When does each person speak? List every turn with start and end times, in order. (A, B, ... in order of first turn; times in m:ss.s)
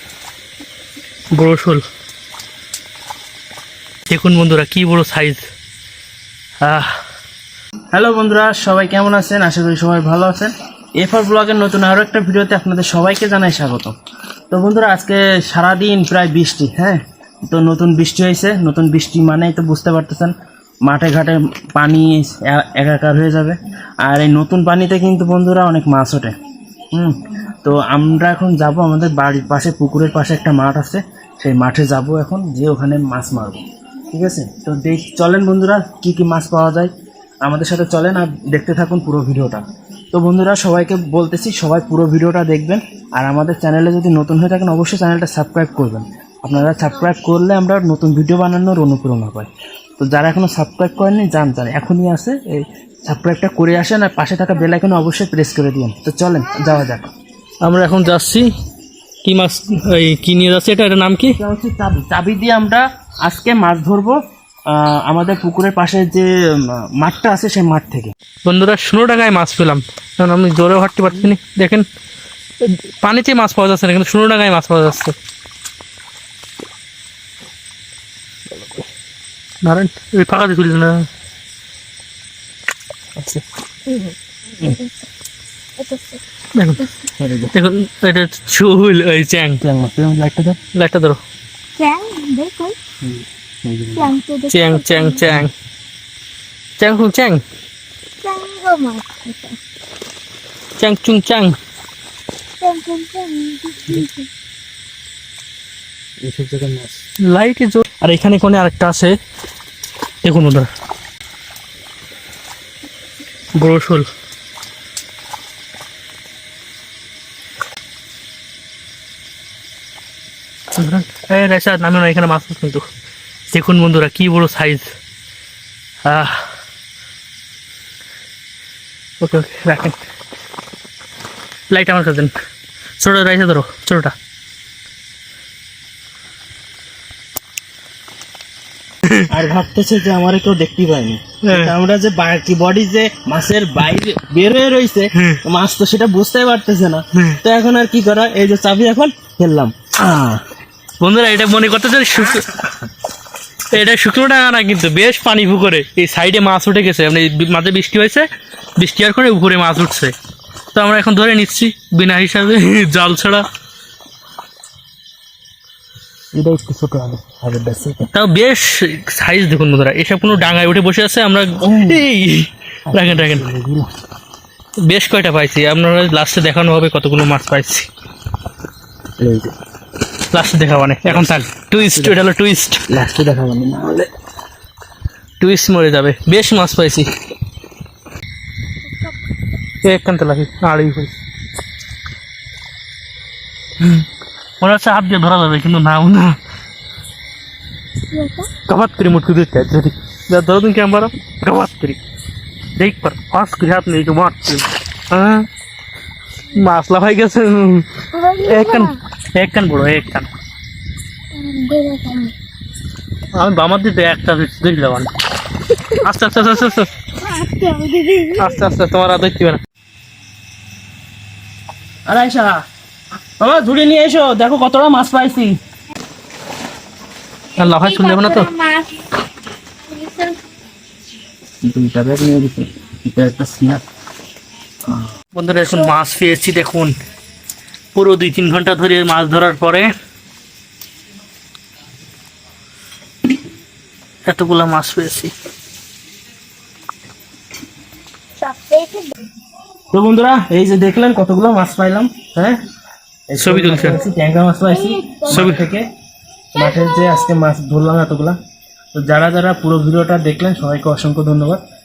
0:01.4-0:01.8 A
0:04.1-0:05.4 A
0:06.6-0:07.0 A
0:07.9-0:14.0 B
0:14.5-0:20.3 B
0:20.8-0:26.4 B
0:26.9-0:36.9 B
0:37.4-0:57.1 B
0:57.6-0:58.5 A
0:59.2-1:01.4 A
1:01.4-1:08.1 B
1:08.4-1:11.9 A
1:12.6-1:15.2 A
1:19.6-1:21.1 A
1:24.6-1:24.9 C
1:25.8-1:26.2 C
1:26.6-1:26.9 A
1:27.2-1:27.5 B
1:27.5-1:29.6 A
1:29.6-1:30.6 B
1:30.7-1:31.2 A
1:31.8-1:32.8 C
1:33.0-1:34.1 B
1:34.0-1:35.2 C
1:34.5-1:35.5 A
1:36.8-1:37.4 A
1:38.2-1:39.6 C
1:40.8-1:41.6 A
1:42.6-1:44.3 C
1:46.2-1:47.0 B
1:47.3-1:49.2 A
1:50.2-1:50.7 A
1:53.6-1:54.1 A
2:00.7-2:02.8 A
2:03.5-2:04.9 A
2:06.0-2:06.5 A
2:09.2-2:10.0 A
2:11.7-2:12.3 A
2:13.0-2:14.2 A
2:19.3-2:30.4 B
2:21.5-2:21.7 A
2:25.2-2:25.4 A
2:31.0-2:32.5 A
2:33.7-2:40.1 A
2:40.7-2:43.4 A
2:46.3-2:48.1 B
2:48.1-2:53.5 A
2:51.6-2:52.0 B
2:52.9-2:53.9 B
2:54.8-2:57.9 A
2:59.2-2:59.5 B
3:00.3-3:02.8 A
3:01.0-3:01.4 B
3:02.9-3:04.1 B
3:05.4-3:07.1 A
3:09.8-3:11.1 A
3:13.8-3:14.0 A
3:14.6-3:16.4 A
3:18.1-3:18.5 C
3:18.6-3:22.0 A
3:22.8-3:25.5 A
3:26.6-3:30.3 A
3:28.1-3:29.0 C
3:31.3-3:32.3 C
3:33.3-3:35.1 A
3:35.9-3:36.9 A
3:37.2-3:38.6 C
3:38.4-3:39.6 A
3:42.1-3:42.6 B
3:43.4-3:45.6 B
3:47.6-3:48.5 A
3:47.6-3:49.0 C
3:49.9-3:50.4 C
3:51.6-3:53.8 B
3:55.4-3:57.0 A
3:57.9-3:59.9 A
4:04.3-4:05.3 A
4:08.4-4:09.1 C
4:09.9-4:12.6 B
4:13.3-4:15.9 B
4:13.4-4:14.0 A
4:14.7-4:15.5 C
4:15.3-4:15.6 A
4:16.5-4:18.4 B
4:19.0-4:21.6 B